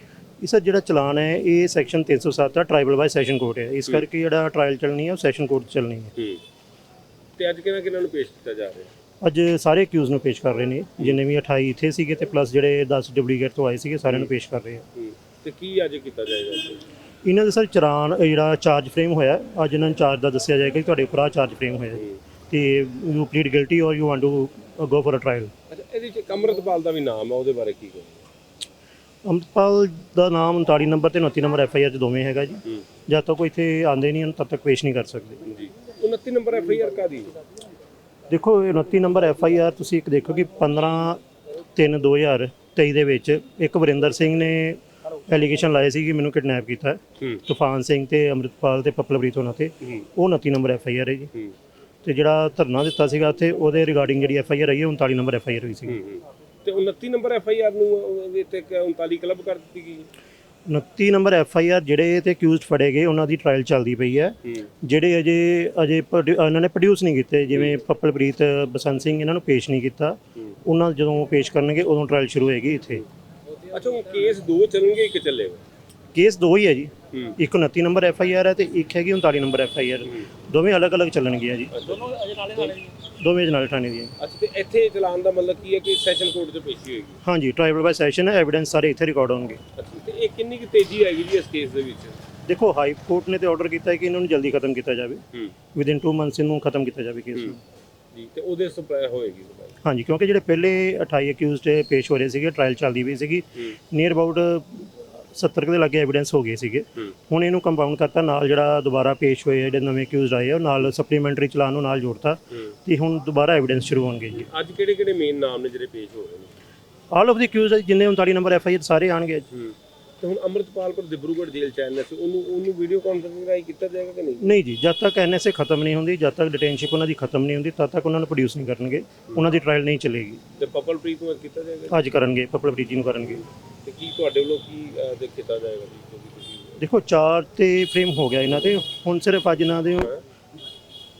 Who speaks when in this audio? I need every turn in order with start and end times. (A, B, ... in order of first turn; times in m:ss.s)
0:00.4-0:06.1 A
0:06.2-0:06.4 B
0:07.4-0:08.9 B
0:09.2-0:14.8 A
0:15.0-0:16.8 B
0:17.2-0:25.5 A
0:25.7-0:28.2 B
0:29.2-0:35.4 A
0:35.4-0:37.3 B
0:38.3-0:41.2 A
0:41.7-0:51.3 A
0:52.0-0:56.0 A
0:55.8-1:00.1 B
1:00.6-1:13.0 A
1:13.7-1:15.6 B
1:16.1-1:21.8 A
1:21.7-1:22.8 B
1:23.1-1:24.1 A
1:24.2-1:27.2 B
1:27.2-1:29.6 A
1:29.8-1:32.2 B
1:32.4-1:35.2 A
1:35.7-1:37.6 A
1:38.1-1:39.7 B
1:39.8-1:54.5 A
1:54.3-1:56.5 B
1:57.1-1:59.4 A
1:59.5-2:04.5 B
2:04.4-2:10.4 A
2:10.6-2:12.0 B
2:11.9-2:13.4 A
2:13.8-2:16.8 B
2:16.8-2:20.1 A